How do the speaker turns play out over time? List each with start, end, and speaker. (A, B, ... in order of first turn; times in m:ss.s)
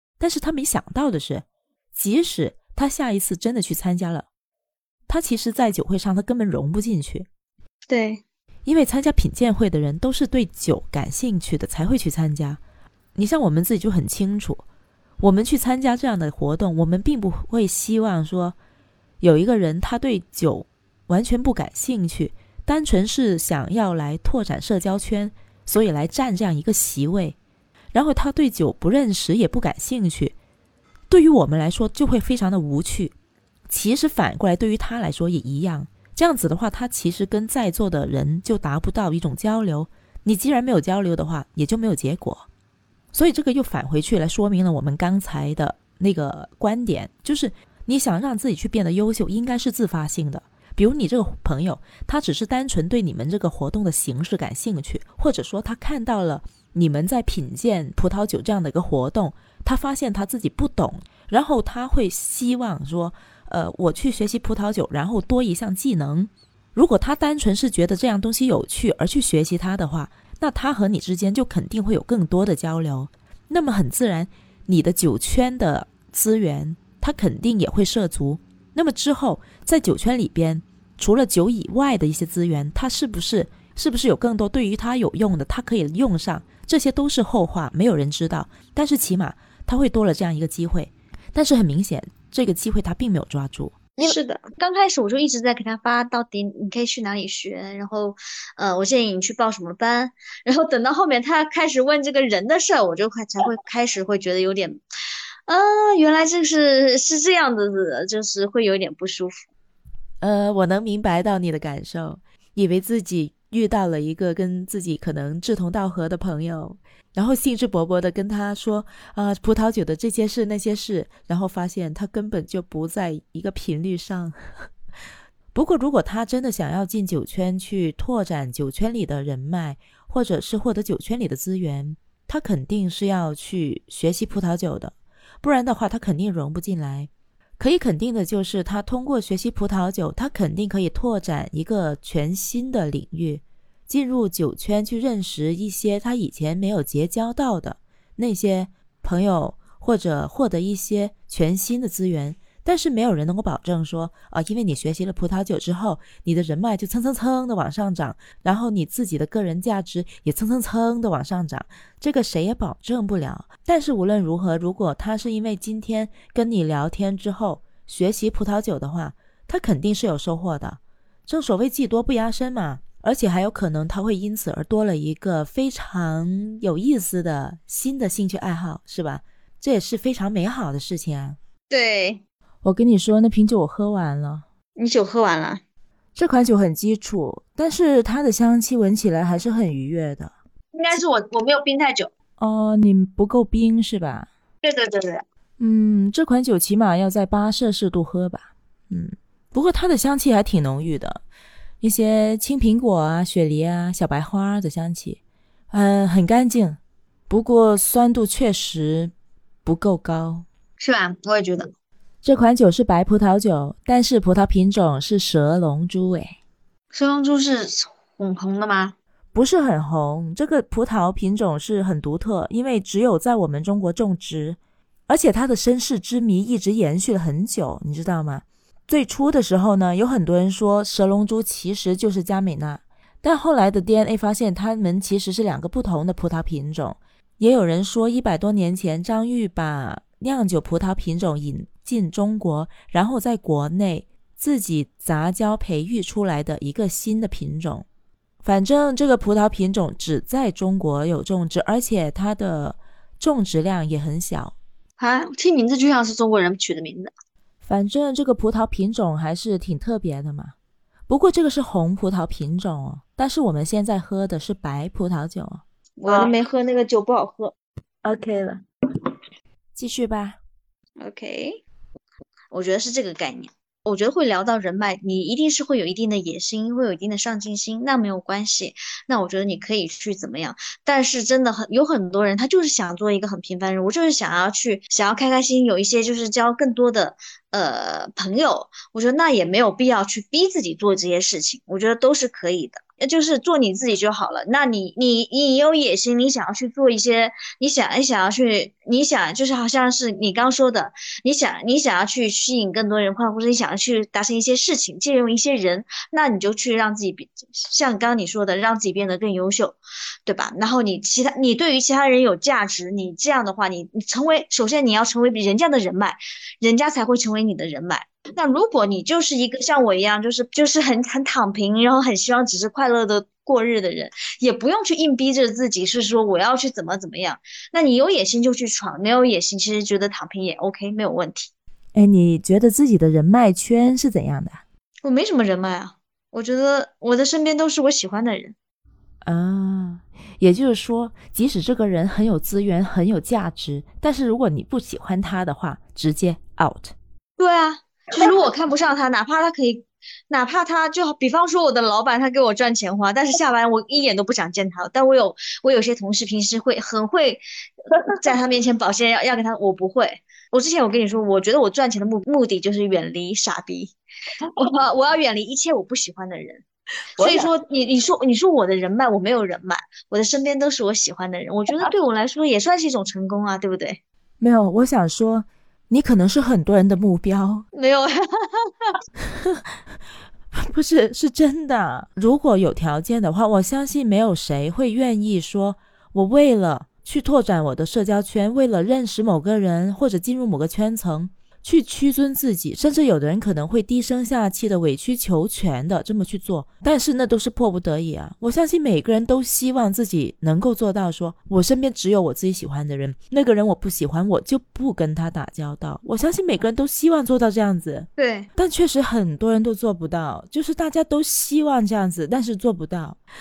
0:00.2-0:04.3 A
0:05.1-0:07.3 A
0:07.9-0:08.2 B
0:08.7-0:12.6 A
0:13.2-0:14.6 A
0:15.2-0:18.6 A
0:19.2-0:27.4 A
0:27.9-0:30.4 A
0:31.1-0:33.2 A
0:33.7-0:42.5 A
0:43.1-1:33.8 A
1:34.0-1:44.8 B
1:45.5-1:49.4 B
1:50.2-2:04.7 A
2:05.5-3:01.4 A
3:01.7-3:02.2 B
3:02.6-3:04.5 A
3:04.8-3:05.6 B
3:06.2-3:10.3 A
3:10.7-3:12.1 B
3:12.4-3:14.3 A
3:14.6-3:15.2 B
3:15.6-3:21.2 A
3:21.8-3:25.2 A
3:25.7-3:29.1 A
3:29.6-3:30.5 A
3:30.8-3:31.7 B
3:32.2-3:36.4 A
3:36.9-3:39.0 B
3:39.3-4:07.9 A
4:08.4-4:14.6 A
4:15.0-4:17.1 B
4:17.6-4:20.6 A
4:21.1-4:26.3 A
4:26.0-4:27.5 B
4:28.0-4:28.6 A
4:29.8-4:30.4 A
4:31.0-4:31.6 B
4:32.5-5:31.5 B
5:32.0-5:34.6 A
5:35.0-5:38.6 B
5:39.2-5:47.0 A
5:47.4-5:57.4 B
5:58.1-6:03.9 B
6:04.5-6:06.6 B
6:07.2-6:14.0 B
6:14.4-6:17.7 A
6:17.7-6:19.0 B
6:19.2-6:19.6 A
6:20.6-6:53.2 A
6:48.2-6:48.5 B